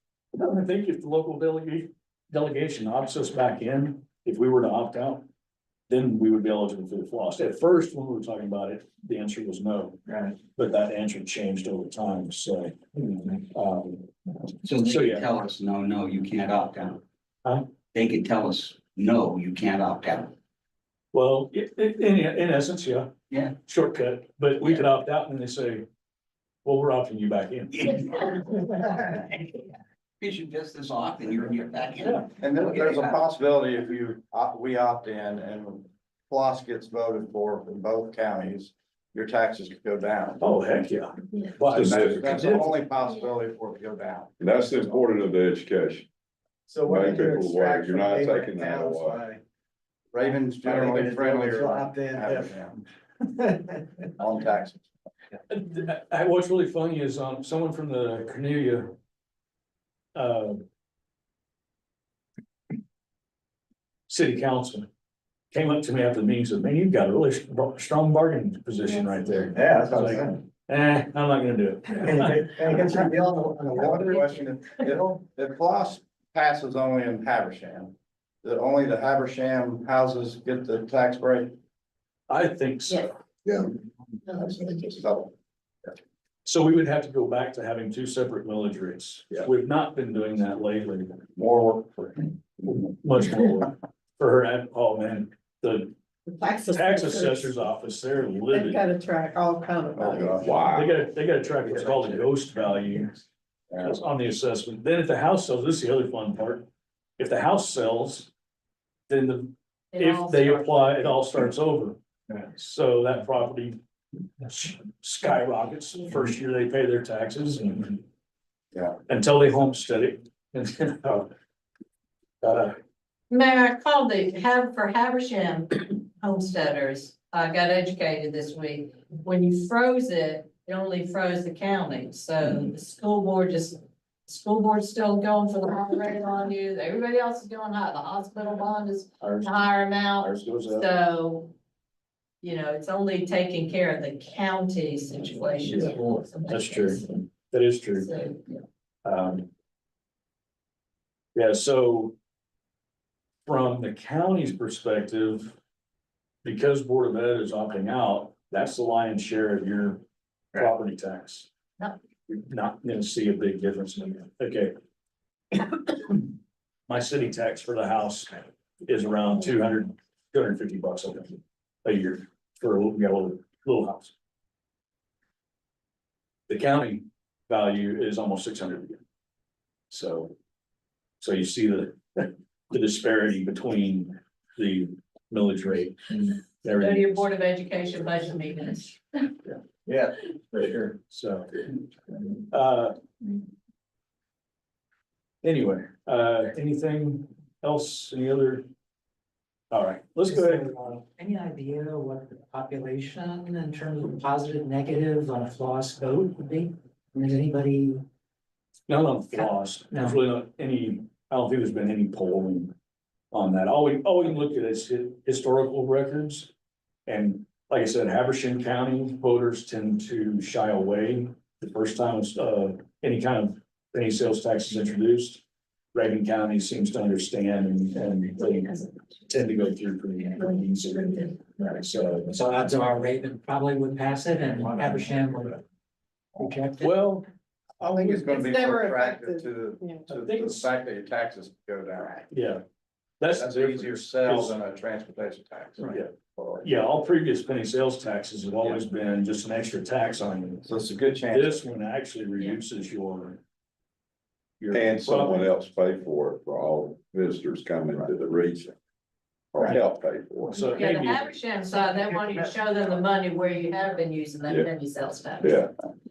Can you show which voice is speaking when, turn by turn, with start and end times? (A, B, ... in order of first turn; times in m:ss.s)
0:00.3-0:05.2 A
0:05.9-0:10.0 A
0:10.1-0:10.3 B
0:10.5-0:14.1 A
0:14.6-0:17.0 C
0:14.8-0:15.2 A
0:17.9-0:20.3 C
0:21.1-0:25.8 A
0:26.6-0:27.8 A
0:27.7-0:29.6 C
0:30.2-0:33.2 C
0:32.4-0:40.4 D
0:40.4-0:42.7 A
0:41.7-0:45.1 D
0:41.7-0:42.6 E
0:44.4-0:46.1 E
0:46.7-0:49.4 B
0:46.8-0:49.2 E
0:50.1-0:52.8 D
0:50.3-0:52.6 B
0:53.4-0:53.8 B
0:54.2-0:54.8 D
0:55.5-0:59.0 A
1:00.1-1:00.6 A
1:04.1-1:04.9 A
1:05.5-1:12.4 A
1:09.5-1:10.4 B
1:12.0-1:14.3 B
1:12.7-1:21.5 D
1:22.3-1:23.2 A
1:24.3-1:25.3 D
1:26.4-1:31.1 A
1:31.4-1:32.3 D
1:32.6-1:35.9 A
1:36.4-1:37.4 F
1:36.7-1:38.8 A
1:38.5-1:40.3 F
1:40.0-1:40.6 D
1:40.1-1:41.0 E
1:40.6-1:43.2 A
1:43.8-1:46.6 A
1:47.2-1:48.3 A
1:49.1-1:53.8 A
1:49.9-1:51.2 G
1:54.4-1:58.0 A
1:59.1-2:01.3 A
2:02.4-2:02.8 A
2:03.3-2:21.5 G
2:19.2-2:20.9 A
2:22.4-2:27.0 G
2:26.5-2:28.1 A
2:28.0-2:28.6 G
2:29.0-2:29.5 A
2:31.3-2:32.1 A
2:33.4-2:35.5 A
2:36.4-2:40.0 A
2:40.5-2:41.5 A
2:42.3-2:44.7 A
2:46.9-2:54.1 A
2:56.5-2:59.0 A
2:59.9-3:00.3 A
3:01.2-3:07.2 A
3:06.7-3:09.2 G
3:09.8-3:10.9 B
3:11.1-3:11.6 A
3:12.5-3:13.0 A
3:15.4-3:18.6 A
3:19.7-3:20.7 A
3:20.2-3:28.0 H
3:28.9-3:32.7 A
3:29.3-3:30.2 H
3:33.3-3:36.5 A
3:37.0-3:45.4 A
3:45.9-3:52.3 A
3:52.3-3:55.6 H
3:56.4-3:56.8 H
3:56.8-3:57.2 A
3:57.8-4:00.0 F
3:57.8-4:02.2 D
4:00.1-4:00.7 A
4:02.3-4:02.6 A
4:03.2-4:04.5 A
4:03.3-4:06.6 D
4:05.8-4:10.7 A
4:10.6-4:11.7 D
4:11.3-4:13.4 A
4:14.6-4:15.5 A
4:14.7-4:18.7 E
4:19.5-4:20.8 E
4:20.5-4:21.3 A
4:20.7-4:25.5 G
4:25.4-4:25.7 E